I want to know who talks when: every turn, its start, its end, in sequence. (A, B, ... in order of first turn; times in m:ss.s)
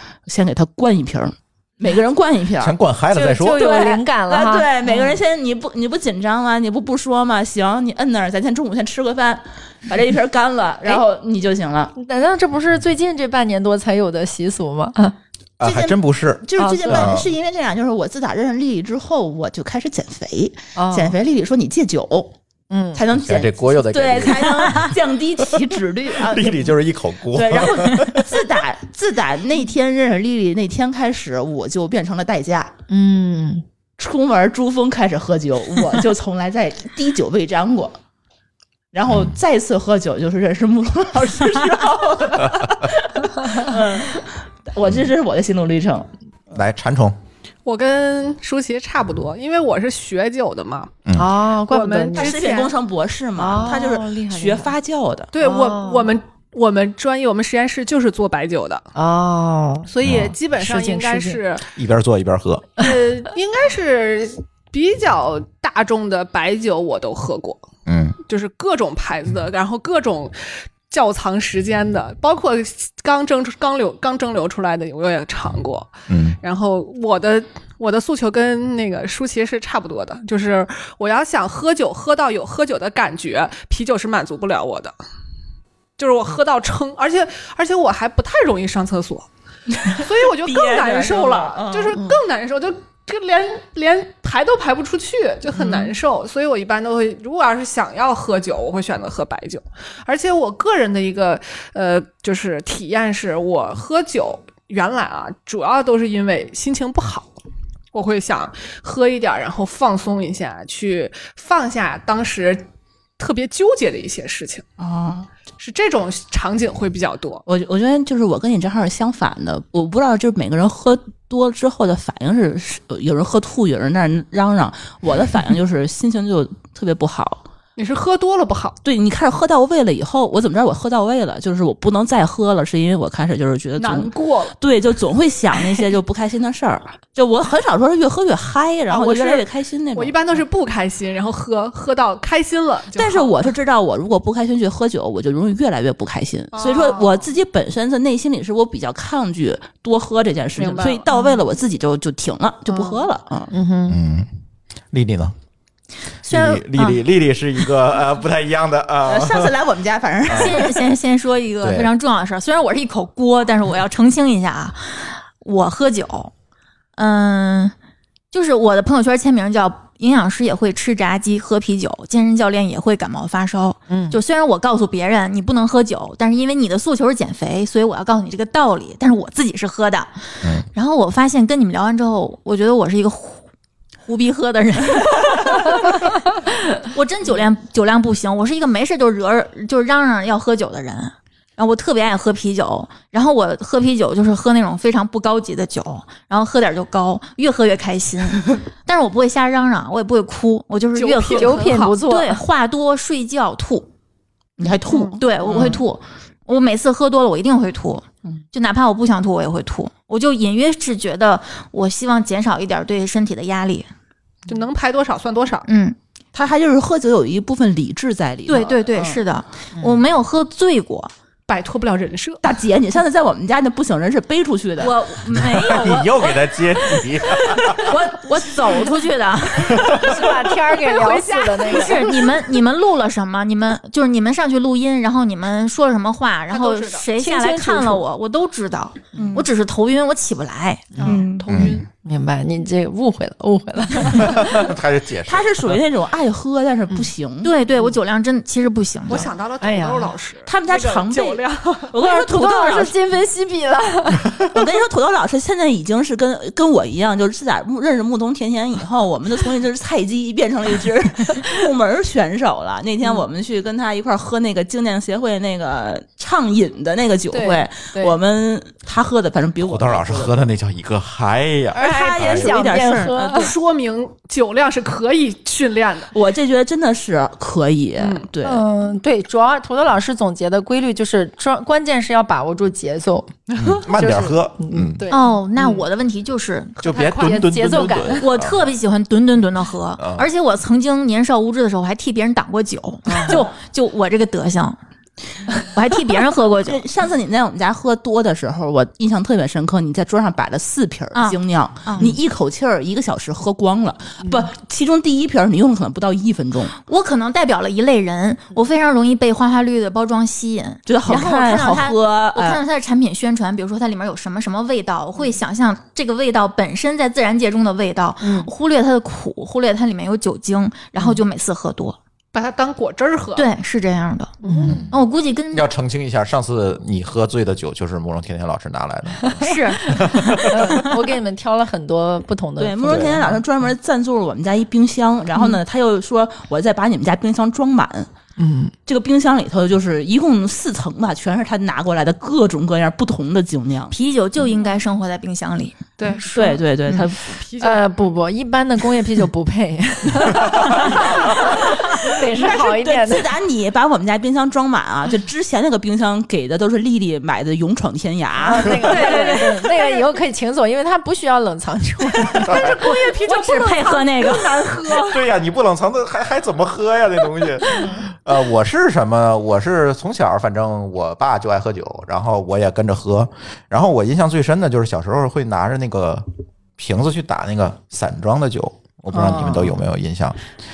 0:00.3-0:02.8 A
0:02.6-0:03.6 B
0:03.1-0:05.2 C
0:03.5-0:11.9 A
0:12.0-0:15.2 C
0:15.6-0:17.3 B
0:15.6-0:22.3 A
0:16.6-0:17.2 C
0:20.8-0:21.2 C
0:22.7-0:23.0 C
0:22.9-0:26.8 A
0:23.1-0:24.9 B
0:25.5-0:28.4 B
0:27.3-0:32.7 A
0:32.9-0:33.6 C
0:34.0-0:38.0 A
0:38.9-0:46.1 A
0:39.1-0:39.4 B
0:46.5-0:47.2 B
0:47.6-0:51.0 D
0:51.2-0:52.4 C
0:51.6-0:52.8 D
0:52.2-0:55.3 A
0:53.4-0:54.7 C
0:55.3-0:58.9 D
0:55.4-0:56.1 C
0:59.0-1:01.4 C
0:59.9-1:01.6 D
1:00.0-1:00.3 B
1:01.8-1:02.8 B
1:02.8-1:07.6 D
1:07.9-1:08.2 B
1:08.3-1:10.3 D
1:10.9-1:24.9 D
1:16.1-1:16.4 B
1:26.0-1:29.3 D
1:29.7-1:32.1 A
1:29.9-1:47.3 D
1:47.9-1:52.7 D
1:53.2-1:54.7 D
1:54.8-1:55.3 A
1:55.6-1:57.4 D
1:57.5-2:07.4 A
2:07.8-2:08.8 D
2:08.8-2:20.4 A
2:13.8-2:14.5 D
2:18.9-2:23.4 D
2:23.0-2:33.5 A
2:26.5-2:27.2 D
2:30.6-2:31.2 D
2:32.7-2:33.1 D
2:33.5-2:34.0 C
2:33.9-2:34.3 B
2:34.9-2:35.4 B
2:36.2-2:39.6 B
2:36.3-2:37.0 E
2:39.0-2:40.9 A
2:40.3-2:40.6 B
2:40.3-2:46.3 E
2:41.6-2:41.9 B
2:47.0-2:47.7 E
2:48.3-3:03.4 E
2:53.9-2:54.2 C
3:00.4-3:00.7 B
3:04.0-3:23.9 E
3:20.9-3:22.0 D
3:21.3-3:22.5 C
3:24.6-3:25.8 A
3:24.9-3:25.2 D
3:25.2-3:33.9 E
3:34.5-3:35.7 D
3:35.7-3:36.0 E
3:36.3-3:39.2 A
3:38.5-3:41.1 E
3:41.5-3:42.4 D
3:42.4-3:45.0 A
3:44.8-3:49.9 E
3:45.3-3:48.0 B
3:49.6-3:50.3 B
3:49.9-3:52.1 C
3:50.7-3:52.1 D
3:51.7-4:01.7 E
3:56.5-3:57.1 D
3:57.2-3:58.0 C
3:59.2-3:59.5 A
4:01.0-4:01.2 C
4:01.0-4:01.7 A
4:01.1-4:01.8 D
4:01.5-4:01.8 B
4:01.8-4:04.7 C
4:04.0-4:05.5 B
4:05.2-4:07.5 A
4:07.4-4:09.4 E
4:09.1-4:11.9 D
4:09.6-4:10.2 C
4:10.5-4:12.9 A
4:12.0-4:14.4 C
4:14.5-4:30.4 A
4:27.3-4:28.2 C
4:29.6-4:32.6 B
4:31.8-4:33.5 C
4:31.8-4:33.5 A
4:33.3-4:36.1 D
4:36.1-4:38.6 A
4:38.0-4:38.3 D
4:38.4-4:45.2 C
4:43.6-4:45.0 B
4:45.1-4:46.9 E
4:46.8-4:48.6 B
4:46.8-4:47.5 D
4:47.1-4:48.3 C
4:48.2-4:54.8 E
4:50.0-4:50.3 B
4:53.1-4:53.4 C
4:55.5-4:56.8 E
4:56.6-5:06.8 A
5:01.2-5:02.2 E
5:04.2-5:04.5 C
5:06.9-5:22.0 E
5:10.9-5:12.6 A
5:18.2-5:18.5 C
5:22.3-5:23.5 D
5:23.4-5:24.4 E
5:24.4-5:24.8 D
5:24.4-5:24.8 C
5:24.6-5:30.8 B
5:24.9-5:25.7 E
5:29.2-5:33.4 C
5:29.4-5:30.6 E
5:32.6-5:38.1 A
5:32.9-5:33.2 B
5:38.4-5:38.7 C
5:38.9-5:44.0 A
5:43.9-5:45.8 E
5:46.0-5:46.6 D
5:46.3-5:47.4 A
5:47.2-5:47.8 D
5:47.6-5:53.3 C
5:50.7-5:51.4 D
5:50.8-5:59.4 A
5:58.4-6:02.7 C
5:58.8-6:00.0 D
6:02.3-6:05.2 D
6:02.4-6:02.9 B
6:03.1-6:05.0 E
6:05.1-6:20.4 B
6:07.7-6:08.0 D
6:19.1-6:19.7 C